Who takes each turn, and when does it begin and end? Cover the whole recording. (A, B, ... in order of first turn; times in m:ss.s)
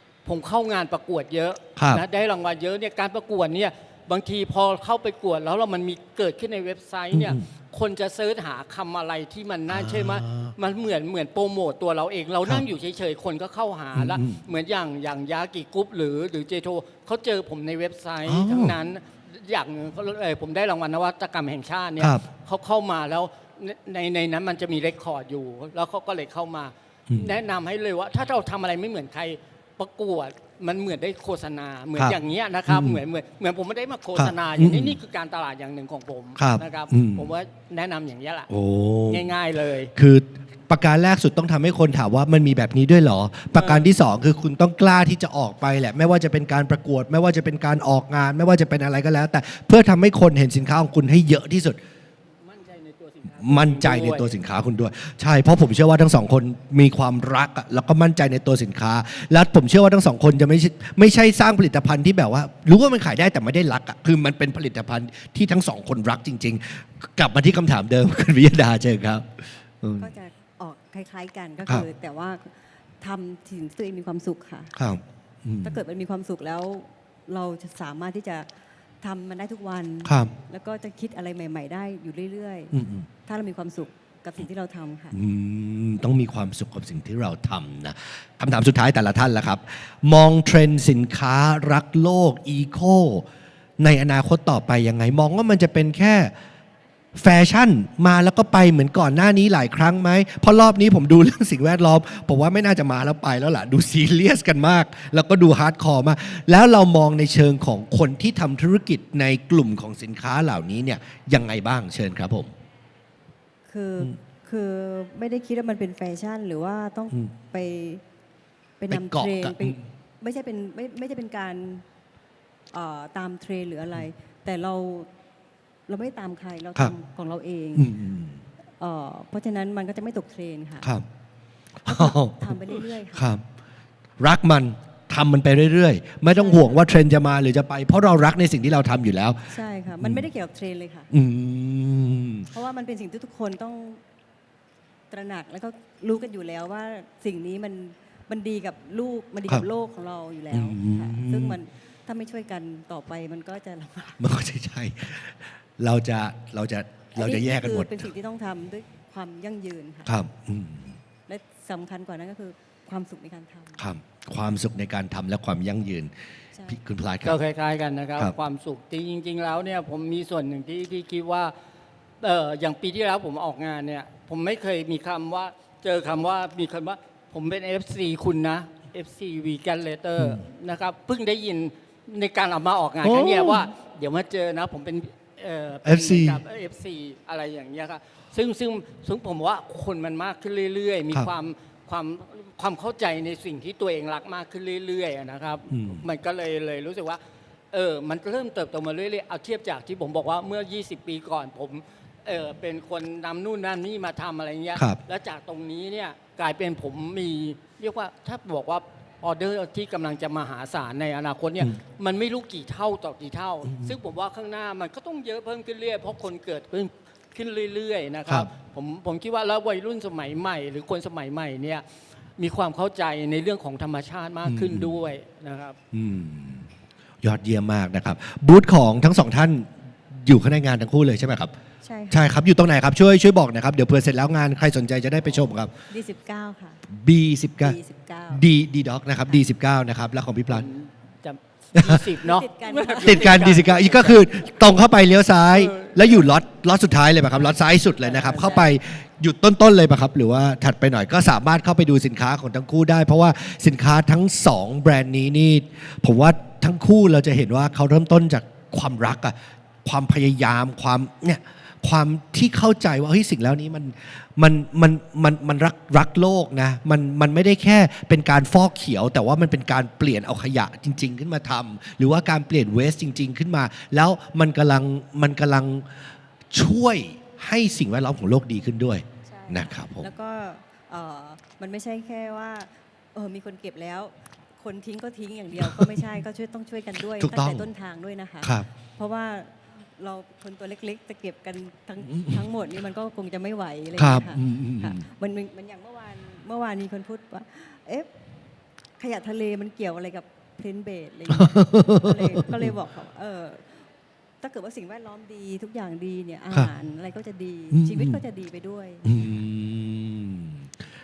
0:00.2-0:38.5 A
0:01.8-0:02.0 B
0:07.1-0:07.4 B
0:09.7-0:10.5 B
0:13.9-0:14.4 B
0:18.3-0:18.8 B
0:22.0-0:22.2 B
0:27.1-0:27.3 B
0:32.0-0:33.0 B
0:34.2-0:35.0 B
0:36.4-0:37.3 B
0:38.5-0:39.3 B
0:39.1-0:39.9 A
0:40.0-0:51.8 B
0:43.5-0:44.0 A
0:52.4-0:54.3 A
0:53.4-1:10.1 B
1:10.0-1:14.7 C
1:14.8-1:15.8 B
1:15.6-1:22.8 C
1:20.0-1:20.3 B
1:22.7-1:23.1 B
1:23.3-1:25.2 C
1:25.1-1:33.3 B
1:33.8-1:36.3 B
1:37.2-1:52.5 B
1:53.7-1:58.0 C
1:58.8-2:01.8 C
1:58.9-1:59.8 B
2:02.7-2:05.1 C
2:05.9-2:07.9 C
2:07.8-2:08.4 B
2:08.8-2:10.9 C
2:11.8-2:13.4 B
2:11.9-2:13.3 C
2:14.2-2:20.2 B
2:16.3-2:16.8 C
2:19.5-2:21.1 C
2:21.1-2:22.5 B
2:22.5-2:24.0 C
2:25.1-2:34.2 C
2:30.5-2:31.6 B
2:34.2-2:38.1 B
2:37.2-2:40.1 C
2:40.1-2:41.0 B
2:41.3-2:43.8 C
2:43.8-2:46.2 B
2:46.5-2:46.8 C
2:46.7-2:47.4 B
2:47.2-2:51.5 A
2:52.2-3:17.2 A
3:00.2-3:00.4 B
3:03.0-3:03.7 B
3:05.8-3:06.4 B
3:15.7-3:16.0 B
3:17.7-3:41.8 A
3:33.7-3:34.0 B
3:42.4-3:45.8 A
3:44.5-3:44.9 B
3:45.9-3:46.7 B
3:47.2-3:51.5 B
3:51.8-3:52.3 C
3:52.1-3:55.7 B
3:55.9-3:56.8 C
3:56.9-3:57.8 B
3:57.6-3:58.4 C
3:58.3-4:00.7 B
4:00.5-4:04.3 A
4:01.8-4:02.1 B
4:02.1-4:03.7 C
4:03.0-4:40.1 B
4:05.5-4:06.3 A
4:08.0-4:08.7 A
4:39.2-4:58.1 C
4:45.6-4:46.1 B
4:47.2-4:47.7 B
4:52.1-4:52.4 B
4:54.0-4:55.0 B
4:59.0-5:03.9 C
5:01.3-5:02.7 B
5:04.4-5:09.2 C
5:07.7-5:08.2 B
5:09.0-5:10.7 B